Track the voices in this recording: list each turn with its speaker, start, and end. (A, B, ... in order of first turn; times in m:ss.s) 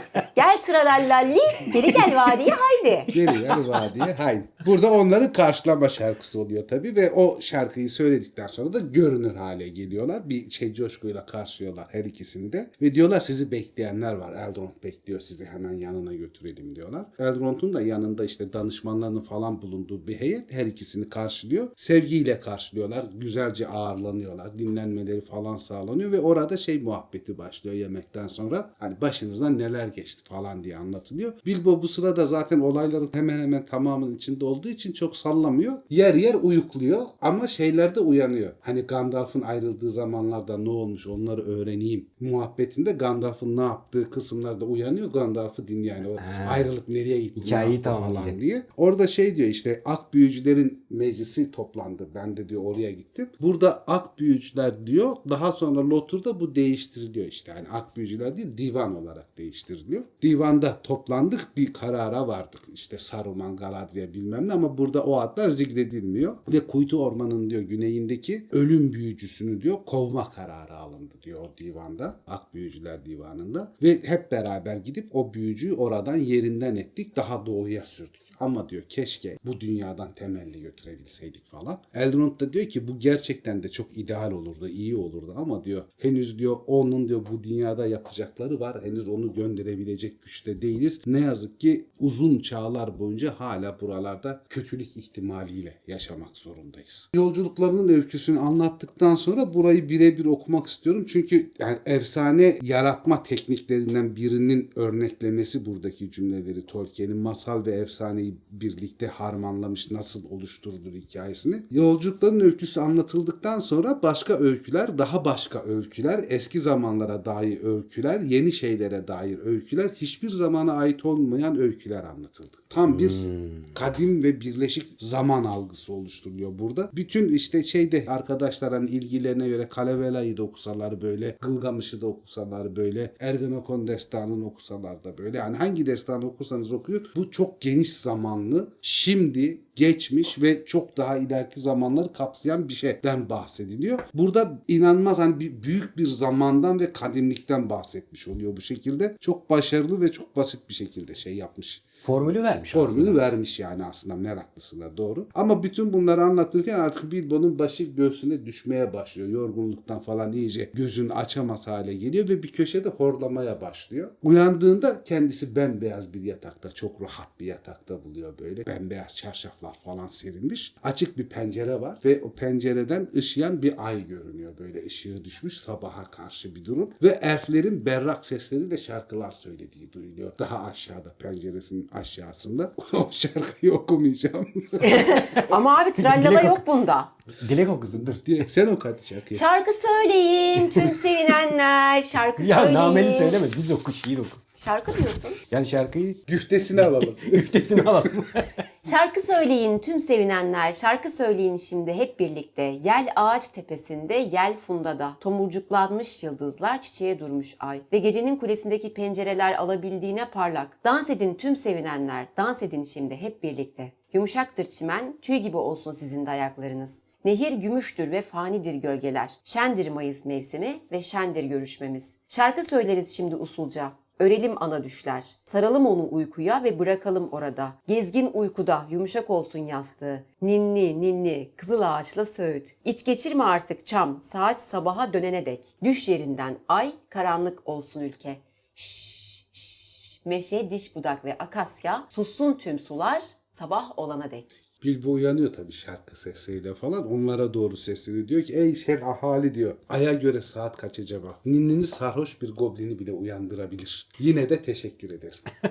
0:00.4-0:03.1 A
0:03.1-0:03.8 B
0:03.1-2:31.9 C
0:46.2-0:46.6 B
0:47.4-0:48.4 B
2:02.9-2:03.7 B
2:32.0-2:33.2 B
2:32.7-3:05.2 C
3:04.8-3:07.1 A
3:06.0-3:06.6 B
3:07.4-3:08.2 B
3:08.0-3:09.4 C
3:09.3-3:13.4 A
3:12.4-3:14.4 B
3:14.6-3:15.4 A
3:15.5-3:16.2 B
3:16.3-3:18.1 C
3:16.8-3:18.7 B
3:18.8-4:04.5 A
4:04.8-4:15.4 C